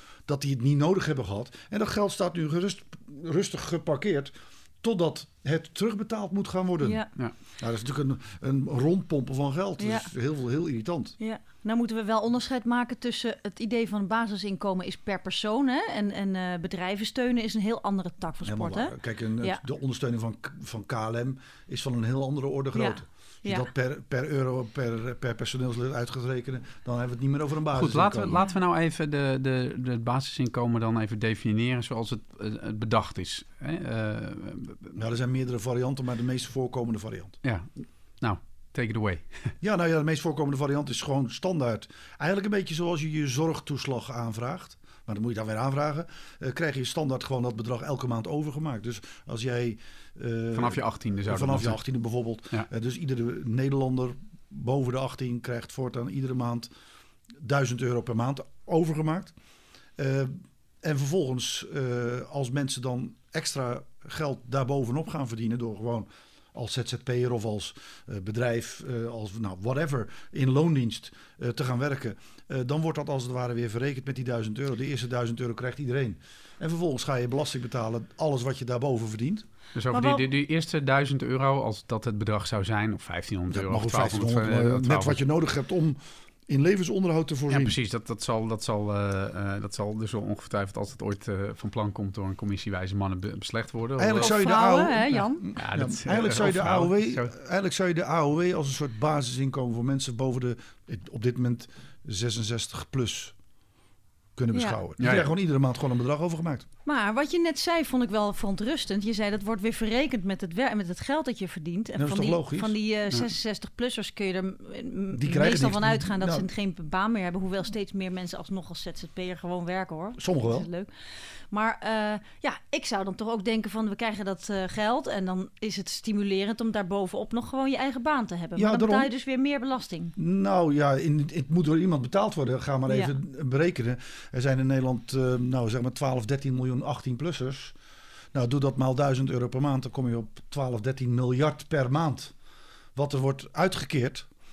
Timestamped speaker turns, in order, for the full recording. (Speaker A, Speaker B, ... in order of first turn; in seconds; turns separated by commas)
Speaker A: 0.3-7.0, Speaker B: 6.8-7.1, Speaker A: 7.6-11.2, Speaker B: 9.8-10.1, Speaker B: 11.2-19.6, Speaker A: 18.4-28.4, Speaker B: 22.7-23.7, Speaker C: 27.7-35.0, Speaker A: 34.9-37.3, Speaker C: 37.4-39.5, Speaker A: 39.6-56.7, Speaker C: 50.5-51.8, Speaker A: 57.4-59.3, Speaker A: 60.0-79.5, Speaker C: 79.7-85.2, Speaker B: 79.9-80.2, Speaker A: 83.5-87.8, Speaker C: 87.5-94.4, Speaker A: 94.0-103.3, Speaker B: 94.2-95.5, Speaker C: 95.5-97.3, Speaker A: 104.3-106.7, Speaker B: 104.5-104.8, Speaker C: 105.0-105.3, Speaker B: 106.8-120.9, Speaker A: 112.0-112.7, Speaker A: 115.1-116.5, Speaker A: 120.2-120.7, Speaker B: 121.5-130.1, Speaker A: 128.6-129.1, Speaker A: 130.2-137.8, Speaker A: 138.3-142.3, Speaker A: 142.9-144.3